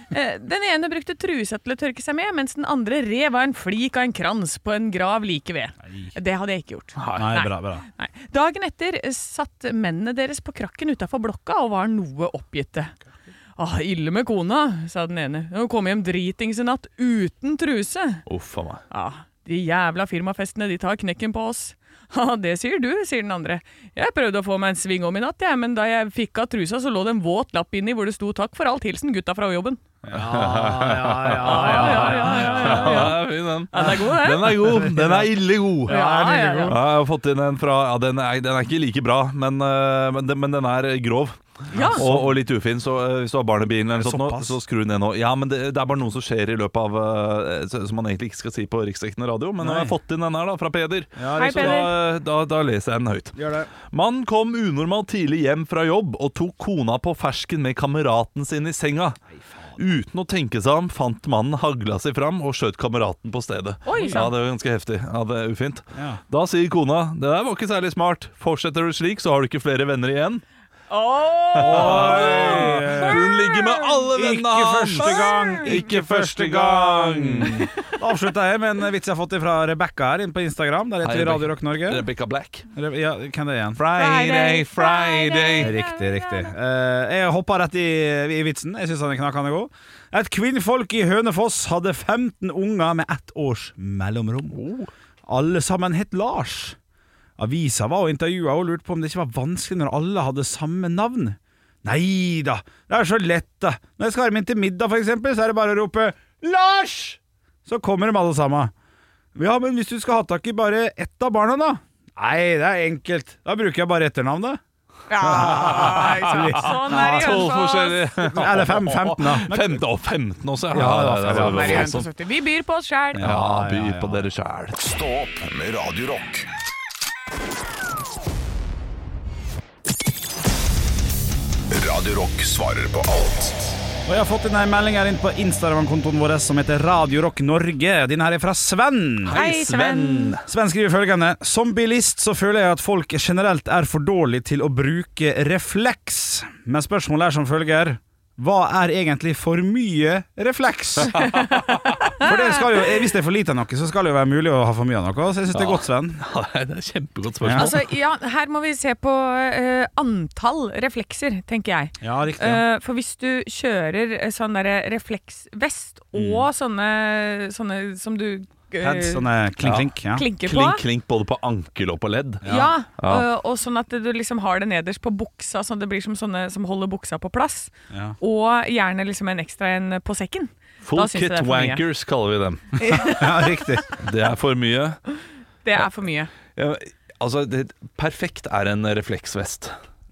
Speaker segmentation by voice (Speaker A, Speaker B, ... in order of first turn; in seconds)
Speaker A: 0.1-12.9, 13.6-18.2, 18.9-29.8, 31.4-34.8, 35.9-36.8, 41.7-42.0, 51.4-51.9, 63.9-64.3, 70.9-74.1, 74.9-75.8, 83.9-86.5, 115.1-118.3, 121.3-123.3, 139.3-140.3, 151.3-152.7, 157.5-169.3, 170.1-170.8, 172.4-181.8, 182.8-183.9, 185.6-186.3
Speaker B: 7.0-7.4, 18.3-18.8, 30.1-59.2, 59.8-70.4, 71.5-77.7, 81.0-82.7, 83.8-85.8, 94.5-94.9, 115.3-122.1, 123.2-124.8, 139.2-140.4, 151.1-151.9, 155.5-157.9, 166.1-166.4, 169.6-173.3, 180.8-183.2, 183.9-185.0, 186.6-189.7
Speaker C: 7.1-7.8, 30.1-33.2, 34.5-36.8, 41.7-42.3, 43.9-44.6, 49.6-50.0, 51.2-52.0, 53.3-53.7, 59.3-59.8, 64.0-64.2, 65.9-66.2, 71.6-73.3, 74.1-82.0, 82.7-83.8, 85.6-94.6, 95.3-96.8, 97.4-108.7, 109.3-114.6, 115.2-117.5, 118.2-119.8, 120.7-122.0, 123.1-124.3, 134.1-139.4, 140.4-151.2, 152.2-156.2, 157.4-157.7, 162.0-162.6, 168.8-170.2, 172.4-172.7, 177.9-178.2, 182.9-183.8
Speaker D: 124.8-126.5, 131.7-133.7